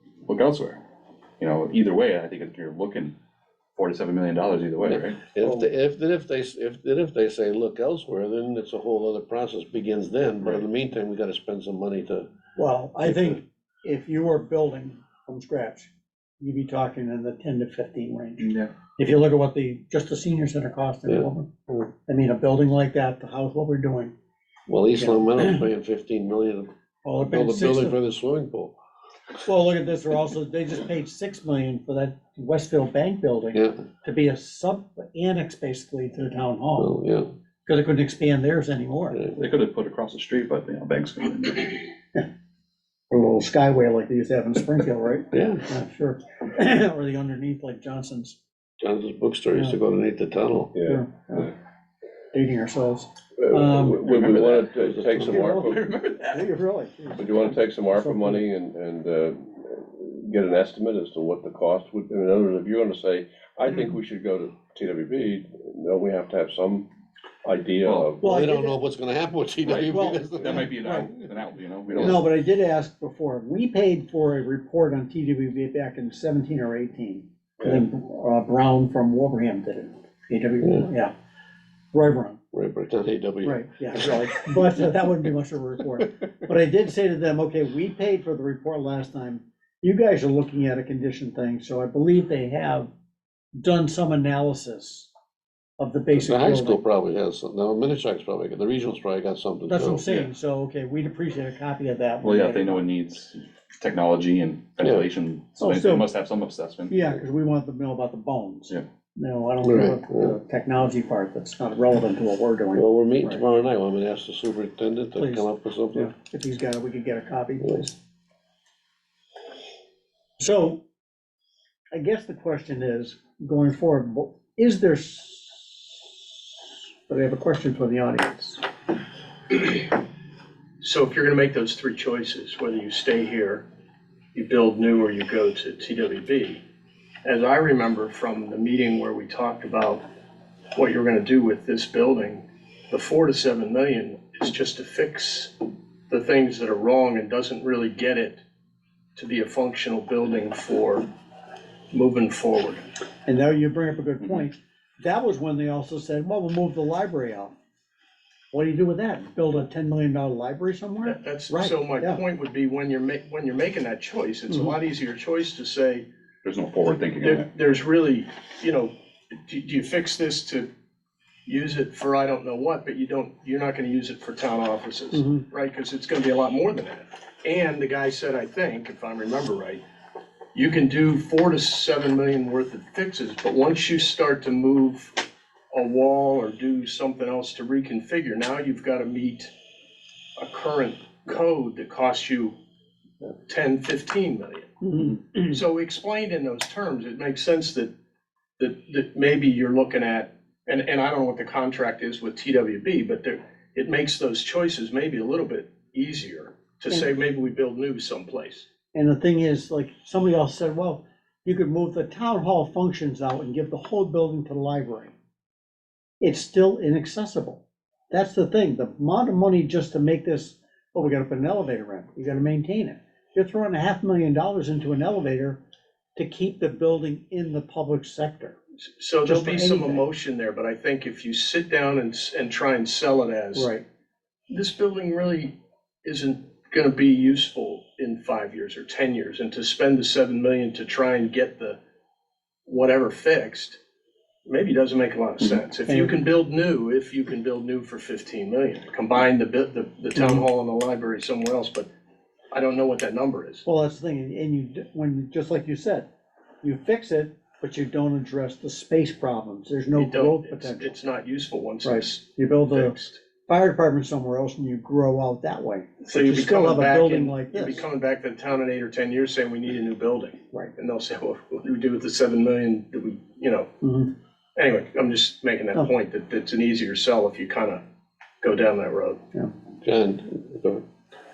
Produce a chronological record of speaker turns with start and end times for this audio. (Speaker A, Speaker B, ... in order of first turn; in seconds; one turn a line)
Speaker A: 0.3-0.8
Speaker A: 1.4-3.1
Speaker A: 3.8-5.3
Speaker B: 4.8-12.3
Speaker C: 12.6-18.4
Speaker B: 13.0-13.4
Speaker A: 18.4-18.7
Speaker C: 19.0-24.1
Speaker B: 24.7-28.7
Speaker C: 25.0-25.6
Speaker C: 27.0-28.0
Speaker C: 29.4-36.9
Speaker B: 33.5-33.8
Speaker B: 36.8-37.3
Speaker C: 37.6-39.2
Speaker B: 39.1-39.4
Speaker A: 39.4-41.9
Speaker C: 43.1-48.4
Speaker B: 45.3-45.7
Speaker B: 48.8-50.7
Speaker D: 50.7-51.0
Speaker C: 50.8-51.5
Speaker C: 52.3-54.1
Speaker D: 53.4-55.8
Speaker A: 54.1-54.7
Speaker B: 54.7-55.5
Speaker C: 55.3-58.4
Speaker A: 55.3-56.5
Speaker D: 57.1-66.9
Speaker D: 67.4-68.2
Speaker A: 67.8-68.1
Speaker C: 68.2-68.8
Speaker B: 68.2-70.7
Speaker A: 69.6-72.2
Speaker C: 69.9-71.1
Speaker C: 72.0-81.1
Speaker C: 81.9-82.4
Speaker B: 82.5-84.1
Speaker C: 83.4-92.9
Speaker C: 93.6-95.1
Speaker C: 95.8-96.8
Speaker B: 96.1-100.0
Speaker C: 99.7-102.8
Speaker A: 102.2-107.1
Speaker C: 105.6-106.0
Speaker C: 106.9-113.4
Speaker B: 109.6-110.4
Speaker B: 112.7-116.1
Speaker C: 115.2-117.9
Speaker C: 120.4-120.8
Speaker C: 121.9-125.8
Speaker C: 127.1-128.6
Speaker E: 130.8-133.6
Speaker E: 134.3-136.6
Speaker E: 137.2-140.0
Speaker E: 140.7-148.4
Speaker E: 149.2-151.1
Speaker E: 151.9-152.8
Speaker C: 153.2-157.5
Speaker A: 154.2-154.5
Speaker C: 158.5-162.2
Speaker E: 161.0-166.1
Speaker C: 164.5-164.8
Speaker A: 166.4-167.5
Speaker E: 166.8-168.9
Speaker E: 169.4-170.7
Speaker E: 171.4-179.8
Speaker C: 175.1-175.4
Speaker E: 180.5-189.5
Speaker E: 190.4-192.5
Speaker E: 193.2-197.9
Speaker C: 194.8-195.5
Speaker E: 198.6-208.7
Speaker C: 208.9-215.1
Speaker C: 216.2-225.6
Speaker C: 226.2-228.6
Speaker E: 228.9-233.7
Speaker C: 229.2-230.0
Speaker C: 233.5-233.8
Speaker E: 234.5-241.8
Speaker E: 242.7-243.8
Speaker E: 244.4-251.9
Speaker C: 245.9-246.2
Speaker C: 250.1-250.5
Speaker E: 252.5-253.6
Speaker C: 253.6-256.1
Speaker C: 256.6-261.0
Speaker E: 259.9-263.2
Speaker C: 261.8-267.8
Speaker E: 266.0-273.7
Speaker C: 273.8-274.1
Speaker E: 274.6-277.8
Speaker E: 278.4-279.2
Speaker B: 279.8-280.8